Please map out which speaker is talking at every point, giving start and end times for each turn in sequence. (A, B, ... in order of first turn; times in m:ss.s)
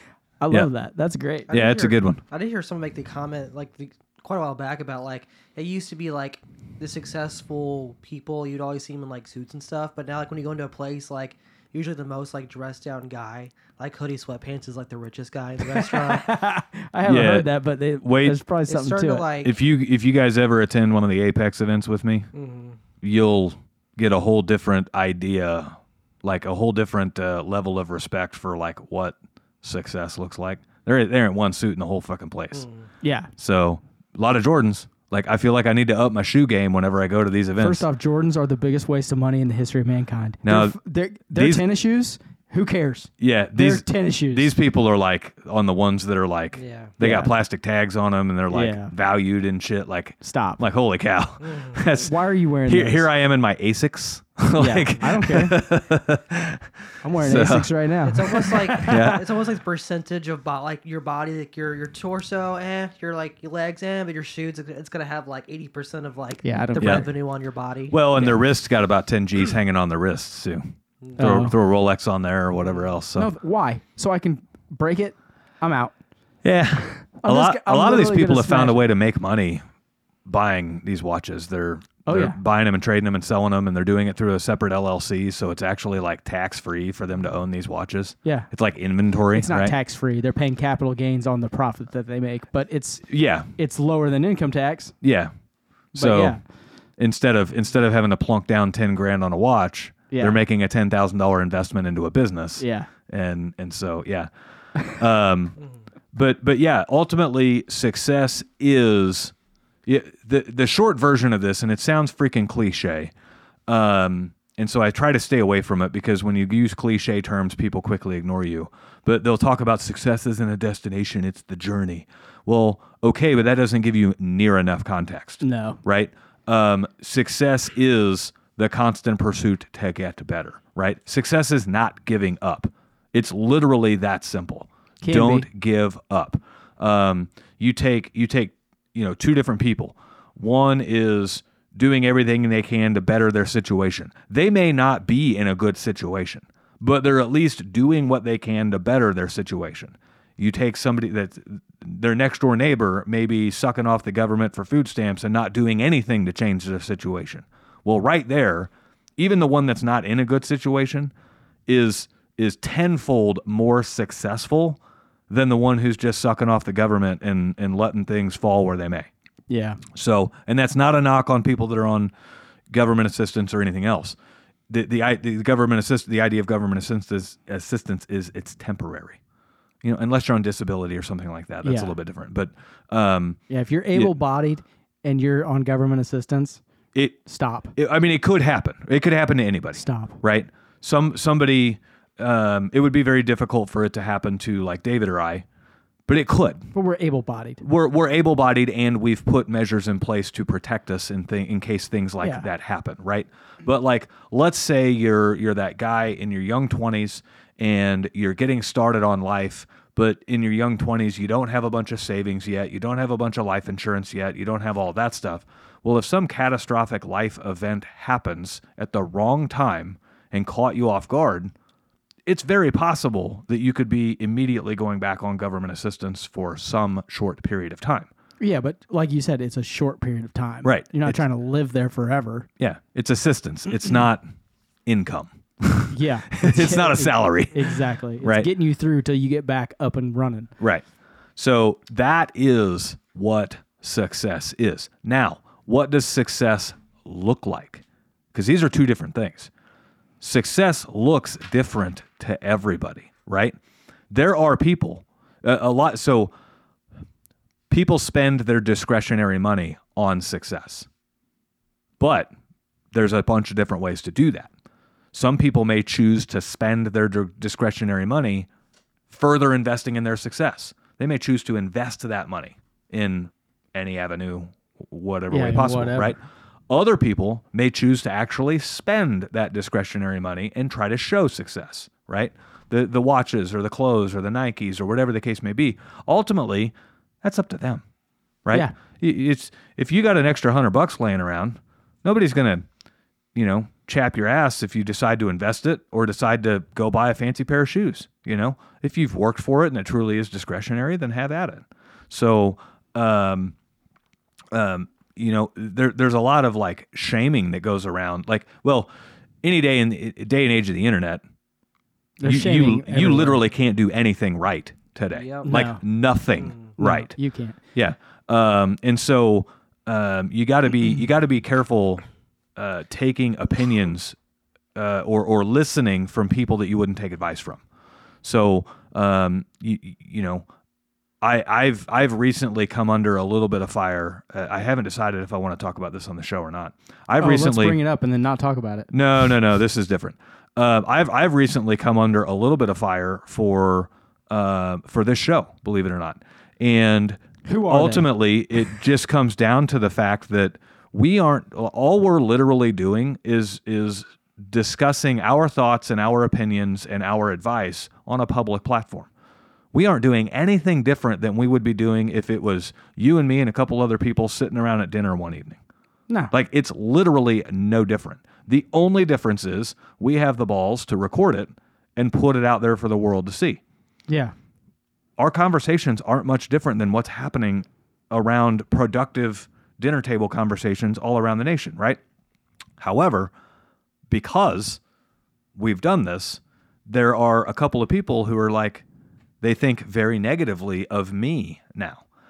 0:00.4-0:01.5 A
0:01.5-0:16.4 B
0:01.5-0:02.2 C
0:15.7-0:19.3 A
0:17.0-0:17.5 C
0:18.0-0:18.4 C
0:18.7-0:19.6 B
0:19.4-0:22.3 C
0:22.3-0:22.8 B
0:23.0-0:32.7 C
0:32.5-0:32.8 B
0:33.0-0:33.3 A
0:33.4-0:37.8 C
0:37.6-0:44.5 A
0:40.4-0:40.8 C
0:41.3-0:41.6 C
0:43.2-0:52.1 C
0:46.5-0:46.9 B
0:47.0-0:47.3 A
0:48.5-0:48.9 A
0:50.2-0:50.6 A
0:51.4-0:51.8 B
0:52.0-0:53.1 A
0:52.6-0:57.7 C
0:54.6-0:55.6 A
0:57.0-0:59.0 A
0:58.0-1:08.3 B
0:58.8-0:59.2 C
1:06.4-1:07.0 A
1:06.8-1:07.1 C
1:07.9-1:10.6 C
1:11.2-1:11.5 A
1:11.2-1:13.3 C
1:13.1-1:15.9 A
1:16.4-1:19.6 C
1:17.2-1:18.8 A
1:20.2-1:29.7 C
1:22.0-1:22.4 A
1:29.3-1:34.9 A
1:33.1-1:33.5 C
1:35.0-1:35.3 C
1:35.9-1:36.4 C
1:35.9-1:36.4 A
1:37.0-1:44.3 C
1:40.1-1:40.4 A
1:42.6-1:42.9 A
1:44.9-1:45.6 C
1:46.1-1:49.3 C
1:49.8-1:53.1 C
1:53.7-2:41.1 C
2:05.4-2:05.8 A
2:15.0-2:15.5 A
2:41.7-2:49.1 C
2:49.5-2:49.8 A
2:49.9-2:52.1 C
2:52.7-2:54.2 C
2:54.7-2:59.2 C
2:59.8-3:03.4 C
3:01.6-3:02.0 A
3:03.5-3:06.6 A
3:07.2-3:07.7 A
3:07.8-3:15.4 C
3:09.8-3:10.2 A
3:16.1-3:16.7 C
3:16.7-3:17.6 A
3:17.6-3:41.5 C
3:22.2-3:22.4 A
3:42.2-3:48.1 C
3:48.4-3:52.5 A
3:50.6-3:51.2 C
3:52.6-3:54.2 C
3:54.8-3:58.5 C
3:55.9-4:00.5 A
4:01.4-4:07.8 C
4:08.3-4:09.5 C
4:10.2-4:13.6 C
4:14.1-4:16.3 C
4:17.7-4:20.9 C
4:22.0-4:22.3 C
4:22.9-4:24.5 C
4:25.1-4:28.5 C
4:29.1-4:36.2 C
4:35.3-4:36.1 A
4:36.7-4:47.8 C
4:48.4-4:52.6 C
4:53.3-5:03.5 C
5:04.5-5:08.9 C
5:09.4-5:11.2 C
5:12.2-5:13.4 A
5:12.2-5:17.1 C
5:15.1-5:15.6 B
5:15.4-5:15.8 A
5:16.4-5:16.7 B
5:16.8-5:17.6 A
5:17.7-5:22.0 C
5:22.6-5:24.2 C
5:24.7-5:27.6 C
5:28.2-5:30.4 C
5:31.2-5:37.8 C
5:37.2-5:38.9 A
5:38.9-5:59.1 C
5:47.4-5:48.1 A
5:59.7-6:05.6 C
6:06.3-6:13.6 C
6:14.1-6:14.3 A
6:15.2-6:22.0 C
6:22.8-6:23.3 C
6:24.1-6:24.8 C
6:25.5-6:28.8 C
6:29.4-6:32.0 C